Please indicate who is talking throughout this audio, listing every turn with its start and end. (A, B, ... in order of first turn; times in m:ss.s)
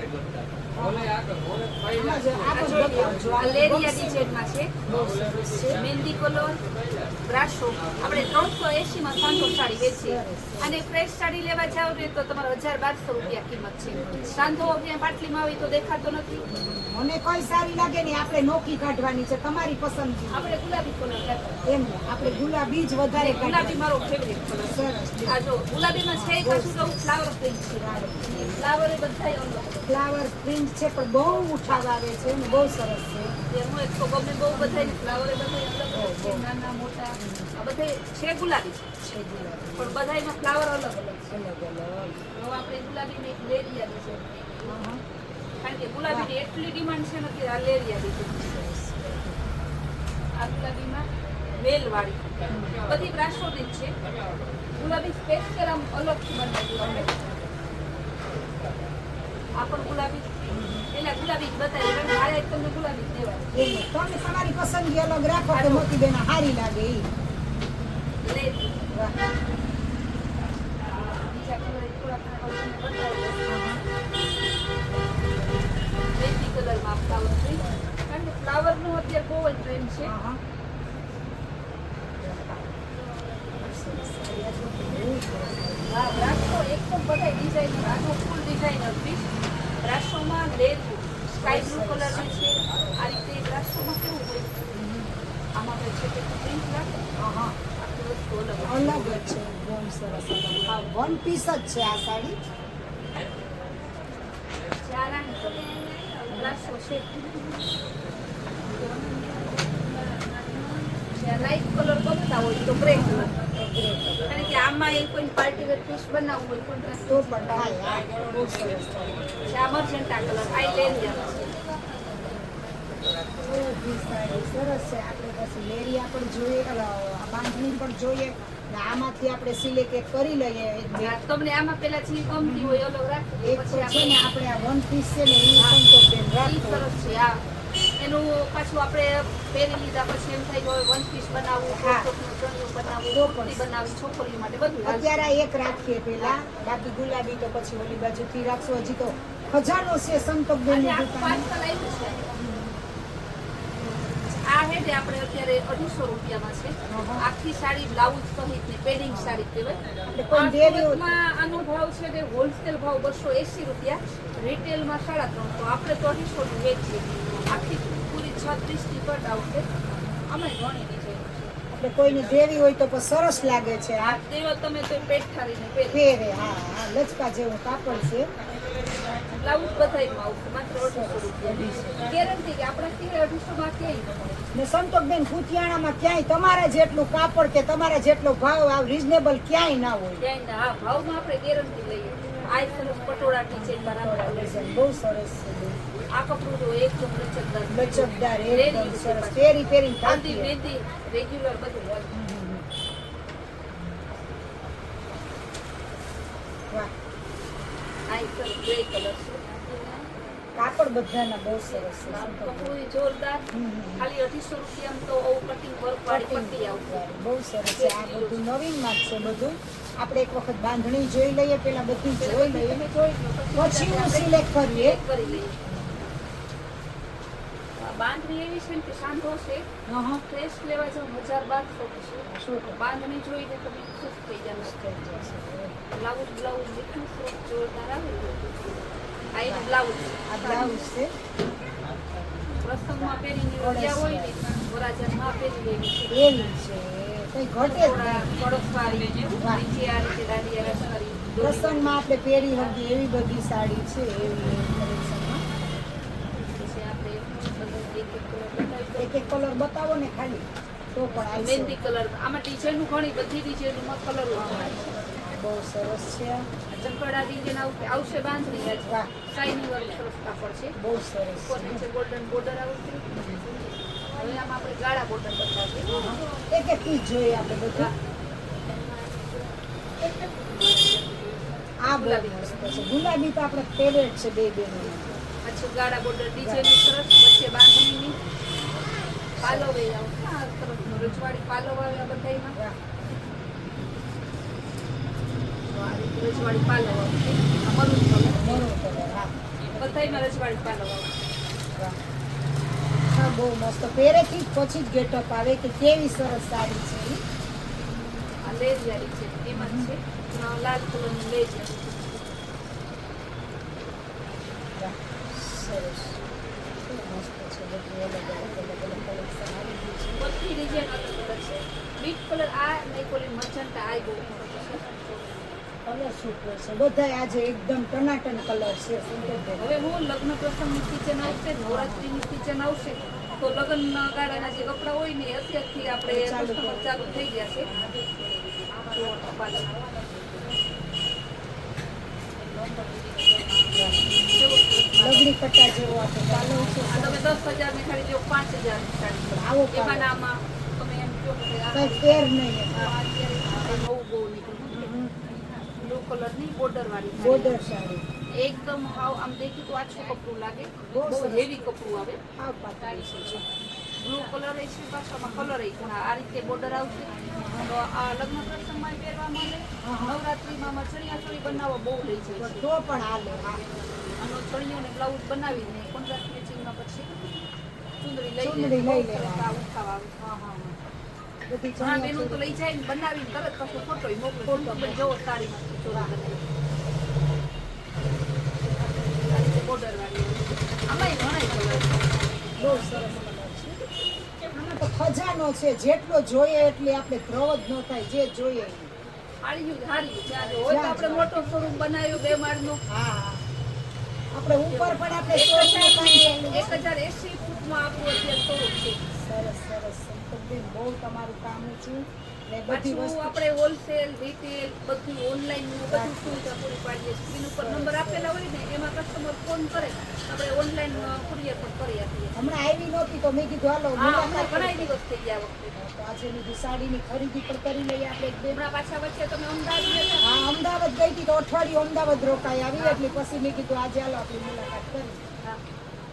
0:00.7-0:01.2 A
0:01.9-0:04.2 A
0:02.5-0:04.7 B
0:04.8-0:05.8 A
0:05.6-0:06.6 B
0:07.2-0:16.5 B
0:09.7-0:10.8 A
0:13.9-0:14.8 A
0:16.5-0:20.5 A
0:20.3-0:21.6 B
0:21.6-0:23.9 A
0:23.2-0:29.9 B
0:24.6-0:25.4 A
0:26.1-0:27.2 A
0:27.7-0:28.6 A
0:29.9-0:33.3 A
0:33.5-0:38.8 B
0:34.5-0:35.2 A
0:35.9-0:36.5 A
0:37.1-0:37.5 A
0:39.0-0:40.0 A
0:39.8-0:41.3 B
0:41.3-0:42.2 A
0:42.3-0:44.3 B
0:44.6-0:45.0 A
0:45.6-0:48.5 B
0:48.4-0:49.4 A
0:50.3-0:53.9 B
0:52.5-0:52.8 A
0:54.7-0:57.1 B
0:56.8-0:57.7 A
0:59.6-1:03.5 B
1:00.5-1:00.9 A
1:03.5-1:07.1 A
1:05.5-1:05.9 B
1:08.2-1:08.7 B
1:08.9-1:09.2 A
1:10.8-1:13.4 B
1:13.5-1:13.8 A
1:16.1-1:20.1 B
1:17.4-1:17.9 A
1:20.0-1:20.4 A
1:22.2-1:22.6 A
1:23.5-1:26.2 A
1:25.9-1:29.3 B
1:29.8-1:34.5 B
1:31.3-1:32.6 A
1:34.7-1:35.1 A
1:35.5-1:36.9 B
1:37.2-1:37.6 A
1:37.8-1:39.3 B
1:38.6-1:42.4 A
1:44.8-1:47.5 B
1:46.3-1:47.0 A
1:51.1-1:53.3 B
1:52.9-1:54.6 A
1:54.3-1:57.4 B
1:57.1-1:59.4 A
1:59.5-2:01.5 B
2:03.4-2:11.1 A
2:11.0-2:14.3 B
2:12.4-2:12.8 A
2:13.4-2:16.9 A
2:16.4-2:17.4 B
2:18.0-2:25.3 B
2:21.7-2:22.1 A
2:23.1-2:23.8 A
2:24.8-2:31.4 A
2:30.7-2:32.3 B
2:32.3-2:32.8 A
2:34.3-2:49.7 B
2:36.9-2:37.2 A
2:39.1-2:39.4 A
2:40.0-2:41.2 A
2:49.9-2:50.2 A
2:50.3-2:51.5 B
2:51.7-2:54.2 A
2:54.0-2:56.0 B
2:55.9-2:58.3 A
2:59.3-3:04.2 B
3:00.7-3:02.1 A
3:04.5-3:10.2 A
3:10.2-3:14.5 B
3:13.5-3:15.8 A
3:16.1-3:22.1 B
3:17.7-3:20.6 A
3:22.1-3:22.7 A
3:28.1-3:29.4 B
3:30.5-3:32.8 A
3:31.7-3:37.1 B
3:33.5-3:34.1 A
3:36.1-3:42.8 A
3:37.7-3:38.4 B
3:42.1-3:45.5 B
3:43.5-3:45.0 A
3:45.6-3:46.0 A
3:47.8-3:49.7 B
3:49.9-3:50.2 A
3:50.3-3:54.8 B
3:52.3-3:52.8 A
3:54.6-3:55.8 A
3:55.9-4:00.8 B
3:59.4-3:59.7 A
4:00.3-4:01.1 A
4:02.6-4:06.3 B
4:03.6-4:04.4 A
4:06.1-4:09.6 A
4:07.6-4:12.0 B
4:11.4-4:15.4 A
4:16.5-4:19.4 B
4:19.0-4:21.8 A
4:21.2-4:25.0 B
4:24.4-4:26.5 A
4:26.7-4:30.7 B
4:28.8-4:29.1 A
4:30.8-4:31.8 A
4:31.5-4:33.0 B
4:33.1-4:33.5 A
4:34.2-4:36.1 B
4:35.9-4:37.9 A
4:41.8-4:45.2 A
4:41.9-4:42.9 B
4:45.4-4:48.2 B
4:46.4-4:46.8 A
4:49.4-4:49.8 A
4:49.4-4:52.6 B
4:50.8-4:51.3 A
4:55.7-4:58.6 B
4:58.4-5:00.3 A
4:59.7-5:01.1 B
5:03.1-5:07.2 A
5:08.4-5:12.4 B
5:09.5-5:09.9 A
5:14.8-5:16.2 A
5:16.8-5:20.3 A
5:20.2-5:24.9 B
5:25.8-5:29.8 A
5:29.6-5:37.7 B
5:31.6-5:32.1 A
5:36.0-5:37.0 A
5:37.6-5:38.2 A
5:38.7-5:40.6 A
5:38.9-5:39.7 B
5:43.7-5:44.2 A
5:44.2-5:45.3 B
5:45.0-5:47.4 A
5:46.5-5:54.9 B
5:49.3-5:50.2 A
5:51.7-5:52.9 A
5:54.7-5:55.1 A
5:55.8-5:57.6 B
5:57.2-5:58.1 A
5:58.3-6:02.2 B
6:00.9-6:01.5 A
6:02.3-6:03.5 A
6:04.0-6:12.7 B
6:07.4-6:07.7 A
6:09.8-6:10.2 A
6:12.4-6:13.6 A
6:14.2-6:17.4 B
6:18.0-6:20.1 B
6:18.4-6:19.5 A
6:20.2-6:20.8 A
6:21.5-6:22.6 A
6:21.8-6:26.4 B
6:24.4-6:25.1 A
6:25.9-6:26.1 A
6:29.3-6:32.0 B
6:32.6-6:33.8 A
6:34.5-6:38.9 A
6:39.4-6:42.8 B
6:40.6-6:41.3 A
6:42.9-6:43.4 A
6:44.3-6:46.9 A
6:44.7-6:49.0 B
6:49.1-6:53.3 A
6:52.7-7:02.5 B
6:55.9-6:56.6 A
6:57.5-6:58.3 A
7:00.9-7:01.3 A
7:02.4-7:05.0 A
7:04.0-7:05.8 B
7:05.7-7:08.6 A
7:08.5-7:10.3 B
7:10.2-7:15.2 A
7:12.7-7:13.1 B